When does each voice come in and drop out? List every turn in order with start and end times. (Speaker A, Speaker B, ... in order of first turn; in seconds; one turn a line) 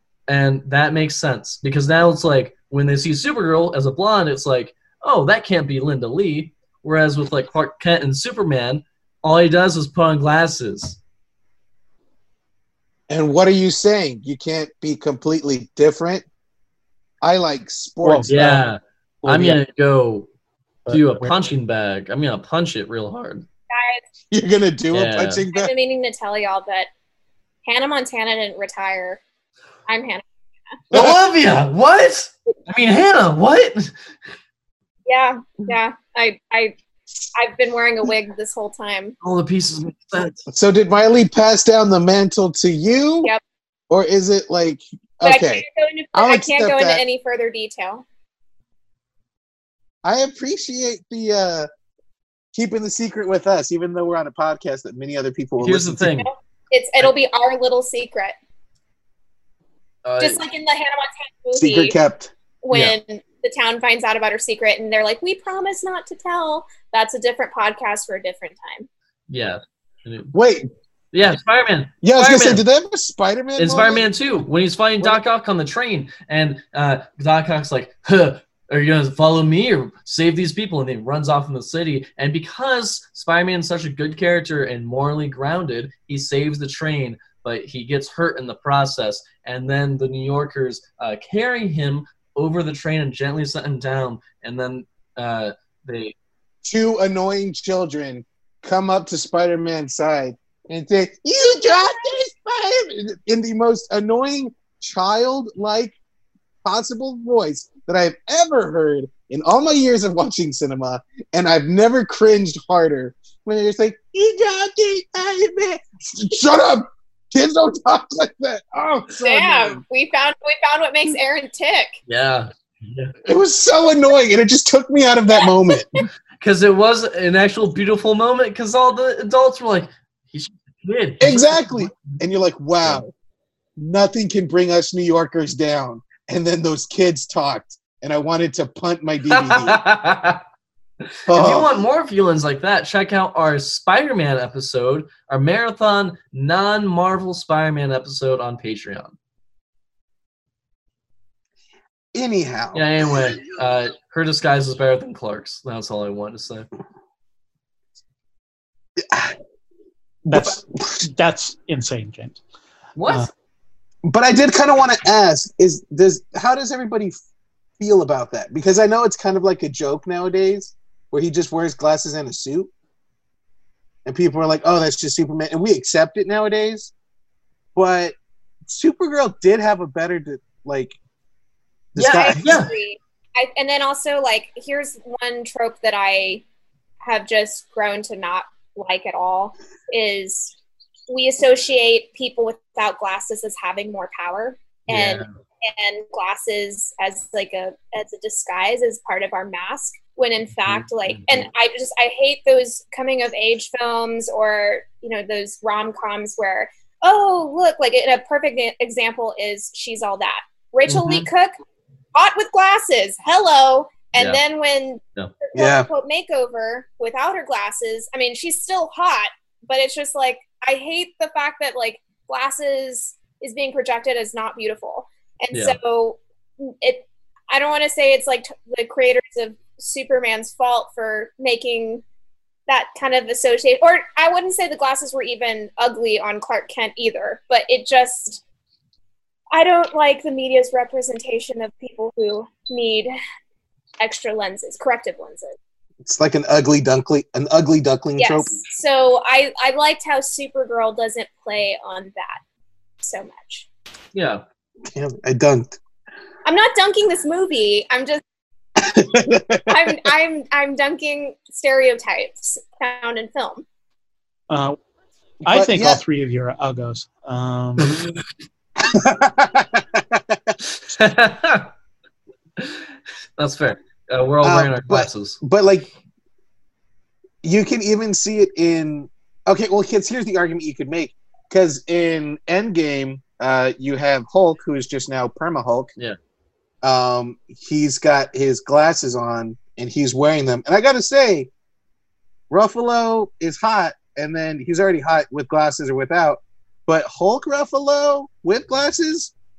Speaker A: 0.3-11.0
Speaker B: 13.1-16.2
Speaker B: 17.2-18.6
Speaker C: 18.0-18.6
Speaker A: 18.3-20.3
Speaker C: 19.2-19.6
Speaker C: 20.9-21.4
Speaker A: 20.9-23.4
Speaker D: 23.7-24.0
Speaker B: 24.3-25.7
Speaker A: 24.9-25.4
Speaker D: 25.5-26.9
Speaker D: 27.6-29.2
Speaker D: 29.9-30.8
Speaker A: 30.9-33.9
Speaker D: 35.1-36.8
Speaker D: 37.3-39.1
Speaker A: 39.2-40.5
Speaker B: 40.5-43.3
Speaker B: 43.9-47.0
Speaker D: 45.2-48.0
Speaker B: 50.0-51.7
Speaker B: 52.5-56.1
Speaker A: 55.6-56.3
Speaker D: 56.2-58.4
Speaker A: 60.0-60.4
Speaker D: 60.2-62.0
Speaker B: 61.5-62.3
Speaker D: 62.6-68.9
Speaker A: 62.7-63.0
Speaker A: 69.3-70.3
Speaker B: 70.3-70.7
Speaker A: 71.1-72.6
Speaker B: 72.0-74.1
Speaker A: 73.6-96.1
Speaker B: 96.6-106.0
Speaker B: 106.6-119.8
Speaker D: 119.2-122.0
Speaker A: 122.1-123.1
Speaker B: 123.2-125.9
Speaker D: 125.7-126.0
Speaker A: 126.4-132.1
Speaker B: 131.2-133.1
Speaker B: 133.8-139.8
Speaker A: 139.3-140.4
Speaker B: 141.3-141.7
Speaker A: 141.3-149.1
Speaker B: 152.1-152.8
Speaker A: 152.7-156.7
Speaker B: 159.0-159.3
Speaker B: 160.2-161.0
Speaker C: 160.3-162.4
Speaker A: 162.9-163.3
Speaker B: 164.0-167.2
Speaker B: 167.8-172.7
Speaker B: 174.1-176.9
Speaker B: 177.7-178.1
Speaker B: 178.7-181.0
Speaker B: 181.9-182.4
Speaker A: 181.9-182.7
Speaker D: 182.1-186.4
Speaker D: 187.0-190.5
Speaker D: 191.1-211.5
Speaker A: 194.9-195.3
Speaker A: 200.6-201.5
Speaker A: 210.9-211.3
Speaker D: 212.1-232.0
Speaker B: 215.5-215.9
Speaker D: 232.7-238.4
Speaker D: 239.5-243.1
Speaker D: 244.0-245.5
Speaker B: 246.0-248.6
Speaker D: 248.2-252.4
Speaker D: 253.0-253.7
Speaker A: 254.1-254.4
Speaker B: 254.9-255.7
Speaker D: 256.4-258.2
Speaker B: 258.8-259.9
Speaker D: 259.7-263.6
Speaker C: 264.5-264.8
Speaker C: 265.4-267.9
Speaker B: 265.5-266.0
Speaker B: 268.8-270.6
Speaker A: 270.9-271.7
Speaker A: 272.6-272.8
Speaker A: 273.4-275.4
Speaker B: 274.4-275.9
Speaker B: 277.4-285.9
Speaker B: 286.8-291.5
Speaker B: 292.5-299.3